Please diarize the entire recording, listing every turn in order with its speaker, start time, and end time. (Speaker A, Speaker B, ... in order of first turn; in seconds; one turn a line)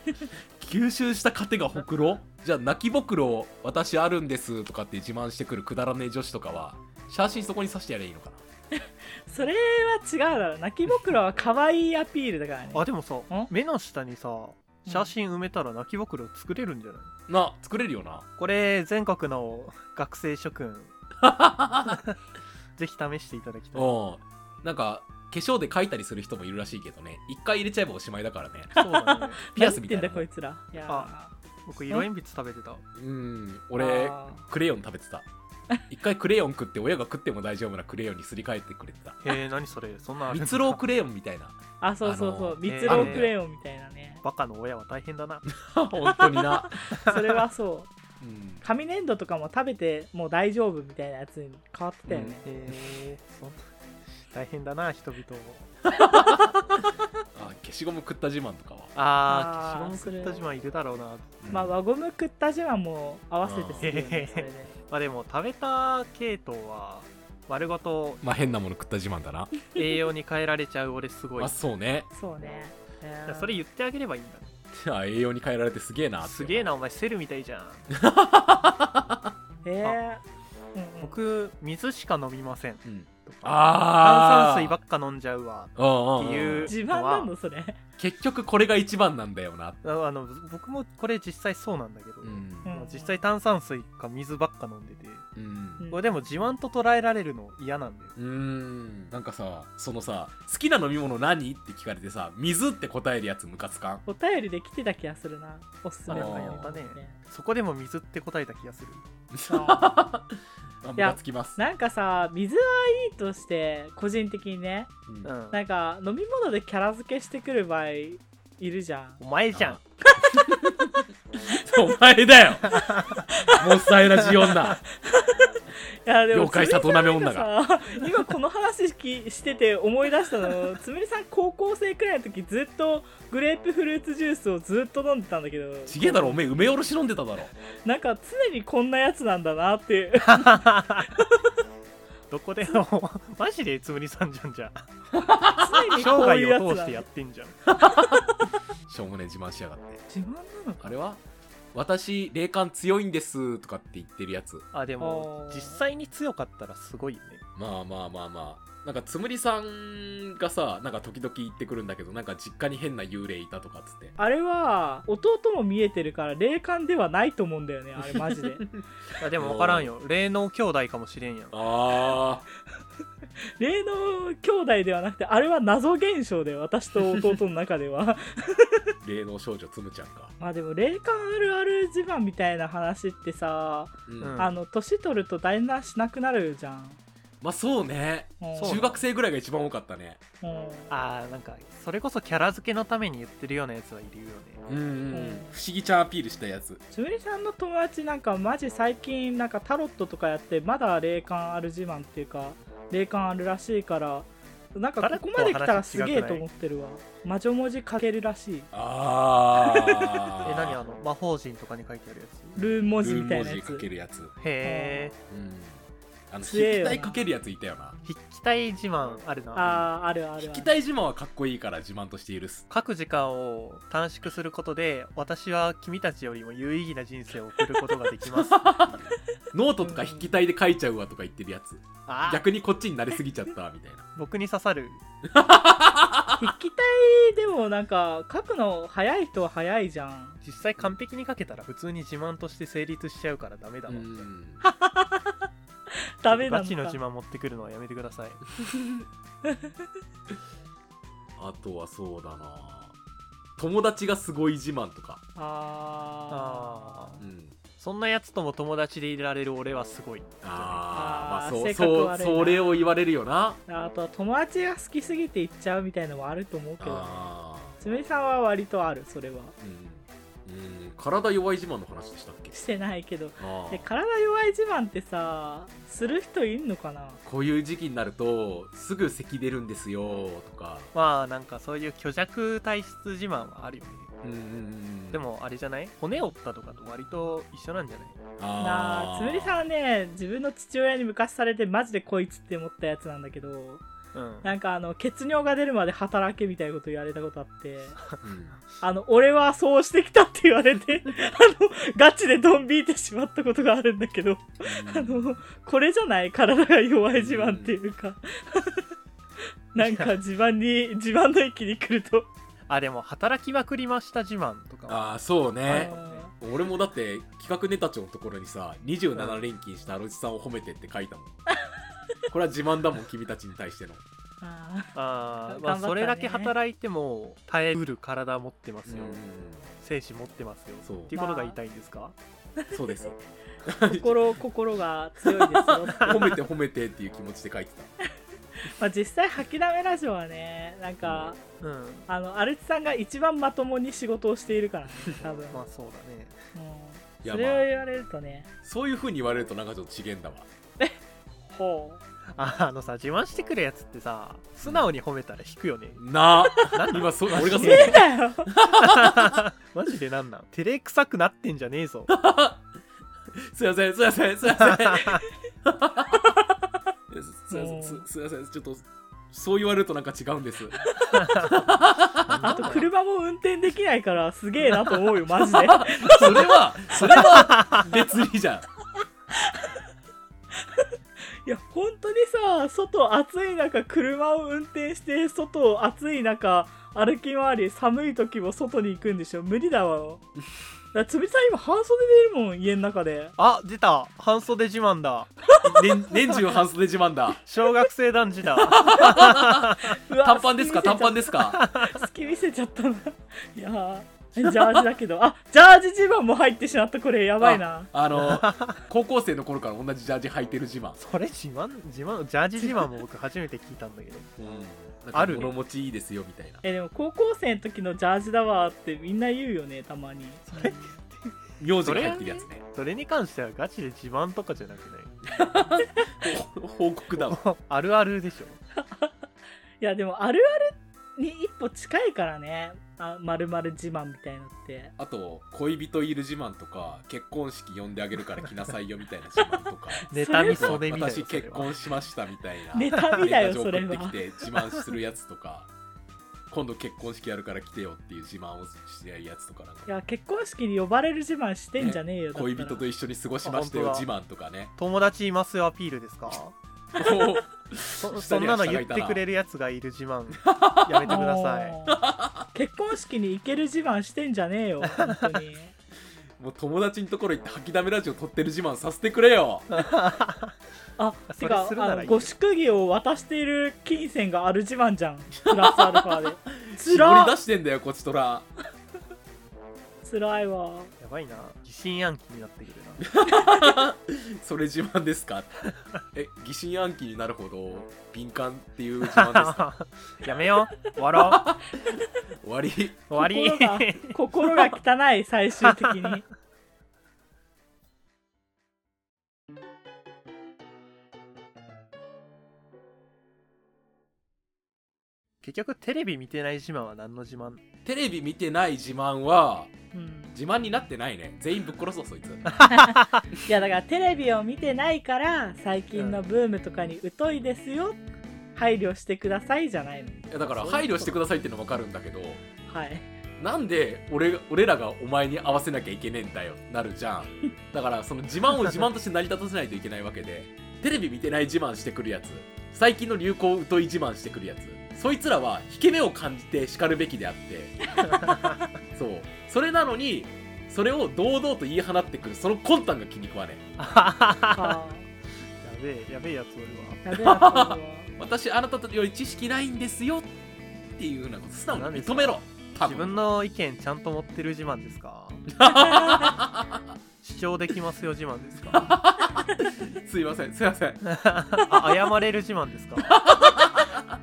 Speaker A: 0.6-8.4
Speaker B: 9.3-13.5
Speaker C: 12.7-17.1
Speaker A: 17.3-18.2
Speaker C: 18.4-20.9
Speaker A: 21.2-22.0
Speaker C: 21.9-22.2
Speaker C: 22.8-24.0
Speaker A: 23.7-28.7
Speaker C: 28.8-29.4
Speaker B: 28.8-31.3
Speaker A: 29.5-30.2
Speaker C: 31.6-32.8
Speaker A: 33.0-35.3
Speaker B: 33.8-34.5
Speaker A: 35.9-39.2
Speaker C: 39.2-40.8
Speaker A: 40.3-43.3
Speaker B: 41.8-44.2
Speaker C: 42.6-43.3
Speaker C: 44.2-45.5
Speaker A: 45.5-46.8
Speaker B: 46.1-47.9
Speaker A: 48.2-48.6
Speaker B: 48.6-52.4
Speaker A: 52.1-52.4
Speaker C: 52.4-53.7
Speaker C: 54.3-55.7
Speaker A: 55.9-56.6
Speaker A: 57.3-58.9
Speaker C: 59.0-61.4
Speaker B: 59.3-60.4
Speaker A: 61.4-61.8
Speaker B: 61.5-64.7
Speaker A: 63.4-63.9
Speaker C: 63.8-68.2
Speaker A: 68.2-69.5
Speaker C: 69.8-71.5
Speaker A: 71.4-72.1
Speaker B: 72.1-73.6
Speaker C: 73.3-74.5
Speaker A: 74.7-76.7
Speaker C: 76.2-77.9
Speaker A: 77.9-79.3
Speaker B: 79.6-80.2
Speaker B: 80.8-81.2
Speaker C: 81.0-87.3
Speaker A: 82.8-84.8
Speaker A: 85.8-86.7
Speaker B: 86.7-87.8
Speaker A: 88.0-89.8
Speaker C: 89.8-95.3
Speaker A: 92.2-92.7
Speaker B: 92.6-93.2
Speaker A: 95.4-95.8
Speaker B: 95.8-96.1
Speaker C: 95.9-98.2
Speaker A: 98.2-104.0
Speaker B: 104.1-107.2
Speaker C: 106.1-109.0
Speaker A: 106.1-106.7
Speaker A: 109.3-111.6
Speaker B: 109.5-109.9
Speaker B: 111.0-114.9
Speaker C: 115.2-115.6
Speaker B: 115.5-119.2
Speaker C: 119.2-119.8
Speaker A: 119.5-119.8
Speaker B: 120.2-120.5
Speaker A: 120.3-122.9
Speaker C: 122.7-123.2
Speaker B: 123.3-136.4
Speaker A: 123.5-124.8
Speaker A: 126.3-127.5
Speaker A: 135.9-137.5
Speaker B: 137.8-141.3
Speaker C: 140.3-141.1
Speaker C: 142.3-144.8
Speaker A: 145.1-146.1
Speaker B: 145.6-147.1
Speaker C: 145.9-147.6
Speaker A: 147.7-148.2
Speaker A: 148.9-150.0
Speaker B: 150.1-150.8
Speaker A: 150.8-151.2
Speaker A: 151.7-154.7
Speaker C: 154.7-157.4
Speaker B: 155.0-155.8
Speaker A: 157.6-164.2
Speaker B: 164.2-168.7
Speaker A: 168.0-168.8
Speaker C: 169.2-171.6
Speaker A: 169.4-169.9
Speaker A: 171.5-172.4
Speaker B: 173.6-178.9
Speaker A: 179.0-180.3
Speaker B: 180.4-187.0
Speaker A: 184.1-184.5
Speaker C: 184.2-184.6
Speaker A: 187.4-190.2
Speaker B: 188.4-188.8
Speaker C: 188.6-189.0
Speaker B: 190.4-190.9
Speaker C: 190.9-194.6
Speaker A: 194.7-196.8
Speaker B: 195.1-195.6
Speaker B: 196.9-208.7
Speaker C: 205.0-206.4
Speaker A: 208.7-210.8
Speaker B: 209.6-210.3
Speaker C: 210.4-212.6
Speaker B: 212.6-213.8
Speaker A: 212.6-214.3
Speaker C: 214.4-215.1
Speaker B: 214.6-215.1
Speaker A: 215.3-218.0
Speaker B: 216.4-217.2
Speaker C: 218.0-219.9
Speaker B: 219.6-220.8
Speaker A: 220.4-222.6
Speaker C: 222.7-229.0
Speaker A: 228.4-234.1
Speaker B: 229.8-230.3
Speaker C: 232.1-232.4
Speaker C: 234.2-235.0
Speaker A: 235.2-236.5
Speaker B: 236.4-240.4
Speaker C: 240.4-244.3
Speaker A: 243.9-244.6
Speaker B: 244.6-245.5
Speaker B: 246.2-247.0
Speaker C: 246.3-248.4
Speaker A: 251.4-252.9
Speaker A: 253.6-255.2
Speaker B: 255.4-257.2
Speaker C: 256.3-257.2
Speaker A: 257.2-257.6
Speaker C: 257.8-260.9
Speaker A: 260.4-263.6
Speaker B: 260.9-262.9
Speaker B: 263.7-269.5
Speaker A: 266.8-267.8
Speaker A: 269.6-272.6
Speaker B: 272.5-277.2
Speaker A: 273.4-273.9
Speaker A: 277.2-280.9
Speaker C: 280.9-284.1
Speaker A: 284.2-285.2
Speaker C: 285.1-288.2
Speaker A: 288.4-289.6
Speaker B: 288.6-293.8
Speaker C: 294.1-294.5
Speaker B: 294.4-298.1
Speaker A: 298.2-298.6
Speaker B: 298.8-308.9
Speaker A: 304.6-305.4
Speaker A: 307.1-307.7
Speaker B: 309.7-312.3
Speaker C: 309.8-310.1
Speaker C: 312.7-315.1
Speaker A: 314.9-321.3
Speaker C: 315.7-316.3
Speaker B: 315.7-316.3
Speaker C: 319.1-319.4
Speaker A: 322.3-324.0
Speaker B: 324.4-324.9
Speaker C: 324.9-329.2
Speaker B: 325.5-326.5
Speaker A: 328.9-329.7
Speaker C: 329.8-332.1
Speaker A: 330.9-331.1
Speaker B: 331.1-331.6
Speaker A: 332.7-334.2
Speaker B: 333.9-336.4
Speaker A: 335.4-337.9
Speaker B: 338.7-341.4
Speaker A: 341.0-341.3
Speaker C: 341.6-342.1
Speaker B: 342.1-345.6
Speaker C: 345.5-346.4
Speaker B: 346.6-348.5
Speaker A: 347.2-347.7
Speaker A: 348.6-350.5
Speaker B: 350.8-352.0
Speaker C: 352.4-358.0
Speaker A: 354.6-354.9
Speaker A: 356.0-359.4
Speaker B: 357.5-358.6
Speaker C: 358.7-362.1
Speaker A: 362.1-362.6
Speaker A: 363.3-366.2
Speaker A: 367.1-372.7
Speaker B: 367.5-368.0
Speaker B: 370.9-371.2
Speaker C: 371.1-371.5
Speaker C: 372.2-372.9
Speaker B: 372.5-377.3
Speaker A: 375.4-378.7
Speaker C: 377.1-377.9
Speaker B: 379.4-379.7
Speaker B: 380.6-380.9
Speaker B: 381.4-390.3
Speaker B: 390.9-393.4
Speaker C: 393.4-395.3
Speaker B: 395.5-396.1
Speaker A: 395.6-397.4
Speaker C: 397.4-400.0
Speaker A: 398.6-401.6
Speaker B: 398.9-399.4
Speaker B: 400.0-407.9
Speaker C: 401.6-402.1
Speaker A: 407.4-411.0
Speaker C: 408.1-408.8
Speaker C: 411.0-414.3
Speaker A: 414.4-416.6
Speaker C: 415.1-415.5
Speaker B: 416.6-420.9
Speaker C: 420.5-425.2
Speaker A: 421.6-422.6
Speaker A: 425.3-427.4
Speaker C: 427.1-428.6
Speaker B: 428.8-429.1
Speaker B: 429.8-434.9
Speaker A: 435.0-445.7
Speaker B: 440.0-440.8
Speaker C: 440.1-441.7
Speaker B: 442.7-444.2
Speaker A: 446.5-449.9
Speaker B: 449.9-452.8
Speaker A: 451.8-454.7
Speaker C: 453.4-454.1
Speaker C: 454.8-456.6
Speaker A: 456.9-459.2
Speaker C: 458.0-461.8
Speaker A: 460.4-461.2
Speaker B: 461.1-462.0
Speaker A: 461.9-462.5
Speaker B: 462.5-465.7
Speaker C: 464.8-465.3
Speaker A: 466.4-469.7
Speaker C: 469.7-470.6
Speaker B: 471.0-477.4
Speaker C: 471.3-472.3
Speaker A: 475.5-478.5
Speaker B: 480.0-480.9
Speaker C: 481.0-483.1
Speaker A: 483.0-485.6
Speaker B: 483.4-483.7
Speaker A: 486.1-489.7
Speaker C: 489.0-491.5
Speaker A: 491.2-491.8
Speaker A: 492.4-493.0
Speaker C: 493.1-494.2
Speaker B: 493.1-496.2
Speaker C: 495.7-496.1
Speaker C: 505.4-507.6
Speaker A: 507.9-509.8
Speaker B: 509.9-510.4
Speaker A: 510.3-512.6
Speaker C: 512.5-513.2
Speaker B: 512.7-518.0
Speaker C: 515.9-516.2
Speaker B: 518.6-521.2
Speaker A: 520.3-522.4
Speaker B: 522.6-523.1
Speaker A: 523.4-537.8
Speaker B: 538.0-538.3
Speaker C: 538.0-538.6
Speaker A: 538.9-543.6
Speaker C: 543.8-544.8
Speaker B: 544.5-545.1
Speaker C: 545.6-547.1
Speaker B: 547.0-548.1
Speaker A: 547.1-550.3
Speaker A: 550.9-553.2
Speaker C: 551.7-555.4
Speaker A: 555.5-556.8
Speaker B: 555.7-556.3
Speaker C: 557.2-559.0
Speaker A: 558.7-561.0
Speaker C: 561.0-563.1
Speaker B: 561.6-561.9
Speaker A: 563.0-564.0